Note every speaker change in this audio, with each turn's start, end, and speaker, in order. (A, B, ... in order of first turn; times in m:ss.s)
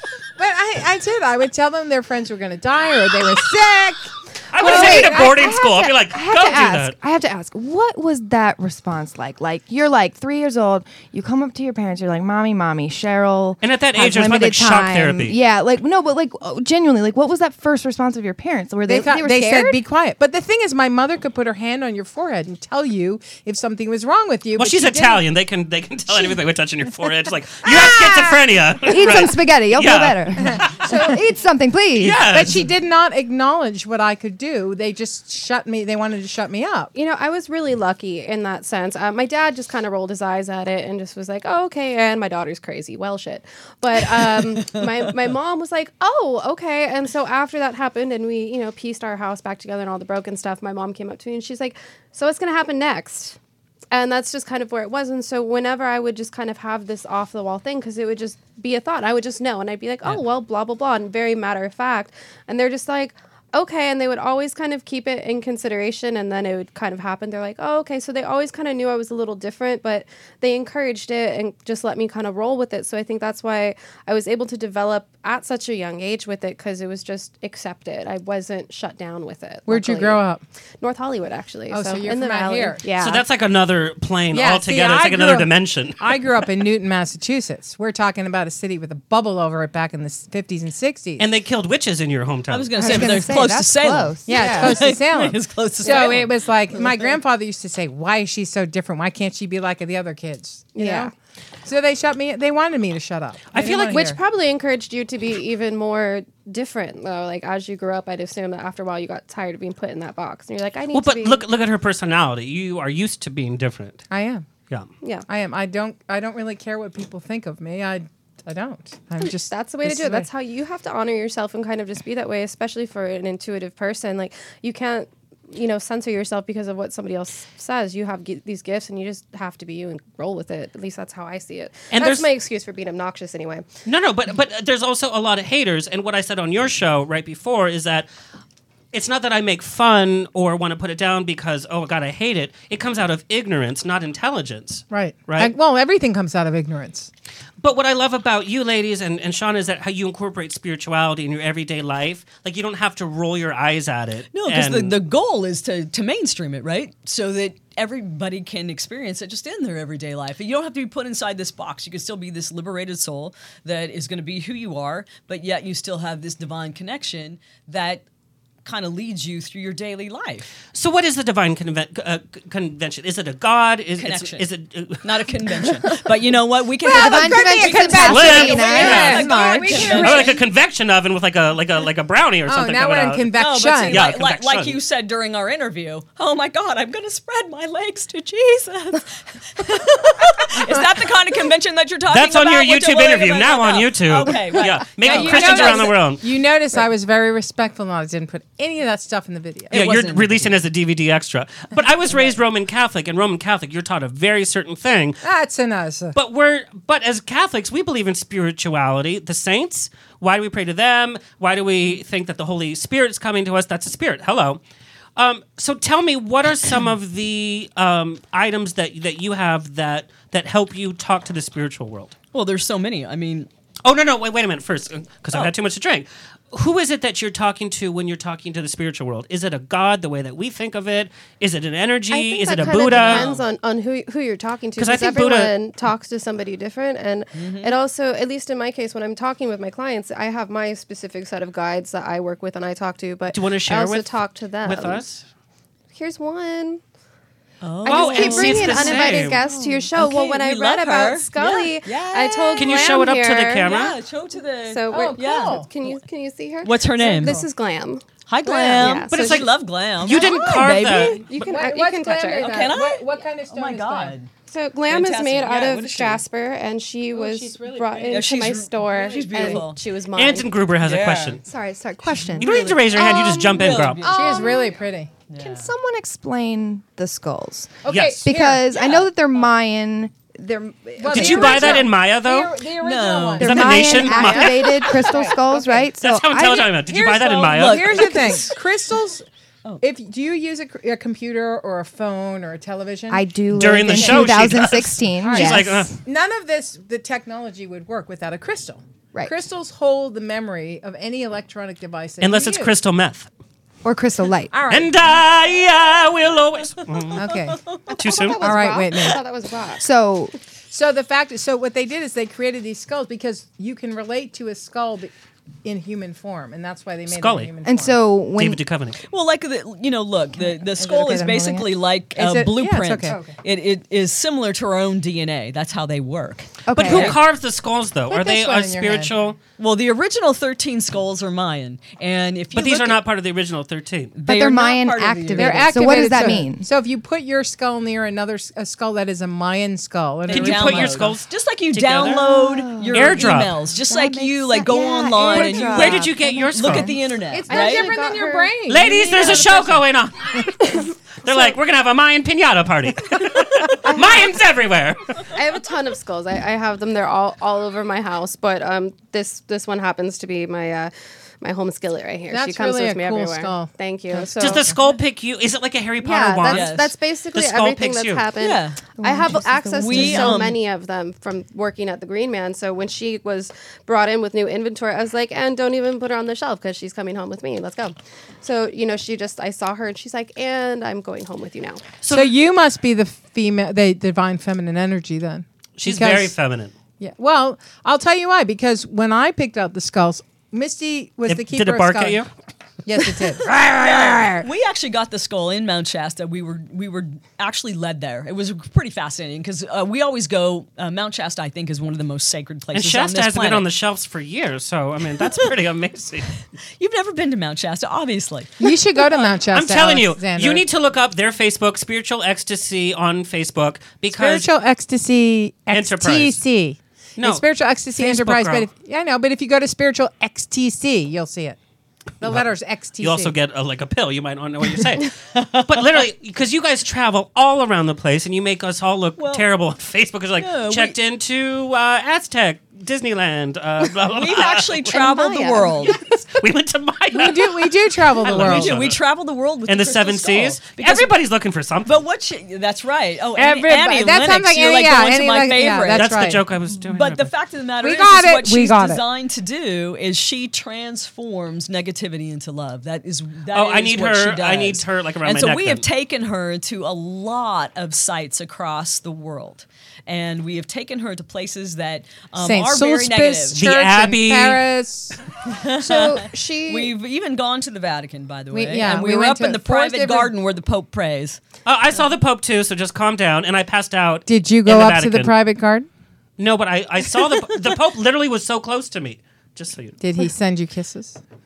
0:00.4-0:05.5 A
0:04.5-0:07.0 B
0:04.6-0:19.8 C
0:13.6-0:15.4 B
0:18.9-0:25.2 A
0:24.6-0:30.9 B
0:27.6-0:28.4 A
0:28.8-0:32.4 C
0:30.4-0:31.1 A
0:32.0-0:32.6 B
0:32.3-0:36.9 A
0:36.9-0:53.4 D
0:44.0-0:45.1 E
0:53.9-1:20.2 D
1:19.7-1:20.4 A
1:20.8-1:23.2 D
1:21.7-1:22.8 A
1:23.0-1:26.1 B
1:24.3-1:31.3 A
1:31.2-1:32.9 B
1:32.5-1:37.0 E
1:32.7-1:34.7 C
1:34.2-1:41.1 A
1:34.3-1:34.7 D
1:35.8-1:36.2 D
1:40.7-1:41.1 D
1:41.6-1:44.2 A
1:43.5-1:44.0 B
1:43.8-1:51.4 D
1:50.9-1:54.0 B
1:54.1-1:54.4 A
1:55.3-2:00.3 A
1:59.2-2:13.7 D
2:11.9-2:12.3 B
2:13.8-2:18.1 B
2:18.9-2:25.5 B
2:24.9-2:27.1 A
2:27.6-2:35.0 B
2:34.3-2:48.0 E
2:48.6-2:50.5 E
2:50.7-2:55.3 B
2:54.0-2:54.5 E
2:55.0-3:00.4 E
2:56.8-3:00.4 A
2:56.8-2:59.9 C
2:58.0-3:04.8 B
3:02.5-3:04.1 A
3:03.3-3:16.1 E
3:12.1-3:16.2 B
3:15.0-3:19.8 A
3:19.7-3:20.6 E
3:19.7-3:25.2 B
3:22.1-3:22.4 E
3:25.2-3:26.1 A
3:26.1-3:34.6 B
3:35.2-3:42.2 B
3:42.3-3:43.5 E
3:43.8-3:53.3 B
3:52.1-4:05.0 D
3:52.6-3:53.4 E
3:54.8-3:55.5 B
3:57.3-3:57.7 E
4:03.3-4:05.2 B
4:05.9-4:06.8 D
4:07.6-4:12.8 E
4:07.8-4:13.9 D
4:07.8-4:09.4 B
4:12.6-4:14.0 B
4:13.6-4:16.0 E
4:14.6-4:19.4 D
4:14.9-4:15.7 A
4:16.6-4:17.4 E
4:17.1-4:17.4 A
4:18.3-4:21.2 E
4:19.0-4:21.2 B
4:20.1-4:24.2 A
4:21.2-4:22.7 D
4:22.4-4:24.3 E
4:24.4-4:30.5 D
4:24.9-4:26.2 E
4:27.1-4:28.3 A
4:28.1-4:29.8 E
4:30.1-4:31.4 B
4:30.8-4:31.4 E
4:31.4-4:33.4 C
4:32.3-4:34.7 E
4:32.4-4:34.0 B
4:34.0-4:34.4 D
4:34.0-4:35.1 A
4:35.3-4:35.7 E
4:35.4-4:41.9 C
4:37.8-4:39.0 A
4:37.9-4:38.2 B
4:41.0-4:45.9 A
4:41.1-4:42.6 B
4:42.8-4:43.6 E
4:43.4-4:46.7 C
4:43.4-4:44.9 B
4:44.2-4:44.5 D
4:46.0-4:48.2 B
4:46.6-4:49.2 A
4:47.2-4:48.6 E
4:49.8-4:54.4 A
4:53.1-4:55.9 C
4:53.5-4:55.9 B
4:55.2-5:02.7 A
5:02.2-5:03.3 B
5:03.8-5:04.5 C
5:04.5-5:04.9 A
5:04.7-5:07.3 B
5:07.0-5:07.8 E
5:07.1-5:07.6 A
5:07.9-5:09.8 D
5:08.0-5:08.4 B
5:08.4-5:09.2 A
5:09.8-5:10.3 C
5:10.7-5:15.1 A
5:15.6-5:18.0 A
5:17.1-5:17.5 B
5:17.6-5:18.6 C
5:18.3-5:19.0 B
5:19.1-5:27.2 E
5:20.8-5:21.6 A
5:21.2-5:21.6 C
5:22.1-5:23.4 A
5:26.6-5:27.2 C
5:26.7-5:29.4 B
5:28.1-5:29.1 A
5:29.6-5:33.0 E
5:32.5-5:34.1 B
5:34.1-5:36.4 E
5:34.2-5:36.7 C
5:35.3-5:41.1 A
5:40.3-5:47.9 E
5:40.3-5:42.3 B
5:42.2-5:43.2 C
5:42.9-5:43.6 B
5:43.8-5:46.9 C
5:45.3-5:46.9 B
5:47.3-5:48.5 D
5:47.5-5:49.8 A
5:48.7-5:55.2 B
5:51.2-5:51.5 A
5:53.8-5:54.3 D
5:55.3-6:04.7 D
6:02.3-6:04.8 A
6:04.4-6:06.7 B
6:06.0-6:21.8 D
6:06.5-6:06.9 E
6:07.3-6:08.3 B
6:08.4-6:08.8 E
6:09.0-6:10.5 C
6:09.7-6:10.6 E
6:22.0-6:22.3 B
6:22.1-6:26.3 A
6:25.8-6:26.7 B
6:27.0-6:32.2 A
6:31.3-6:32.3 B
6:32.8-6:34.5 A
6:33.6-6:43.7 E
6:42.7-6:46.4 B
6:46.8-6:48.7 E
6:48.6-6:50.6 A
6:49.5-6:54.5 B
6:54.1-7:01.6 A
6:55.7-6:56.4 B
6:57.2-6:58.7 B
7:02.2-7:03.3 A
7:03.0-7:14.9 B
7:05.3-7:05.6 E
7:09.2-7:09.5 E
7:10.4-7:11.0 E
7:14.0-7:16.0 E
7:14.9-7:16.0 D
7:16.0-7:19.0 B
7:17.1-7:18.8 A
7:18.2-7:21.1 E
7:19.7-7:22.0 B
7:21.8-7:26.2 E
7:23.4-7:26.5 A
7:25.9-7:27.3 B
7:26.8-7:43.6 E
7:27.8-7:29.0 A
7:33.5-7:35.8 B
7:42.4-7:45.2 A
7:43.5-7:44.6 B
7:45.5-7:51.4 E
7:45.9-7:46.9 D
7:48.5-7:50.3 A
7:51.6-7:55.4 B
7:54.3-7:55.9 A
7:56.4-8:00.0 B
8:00.0-8:01.2 A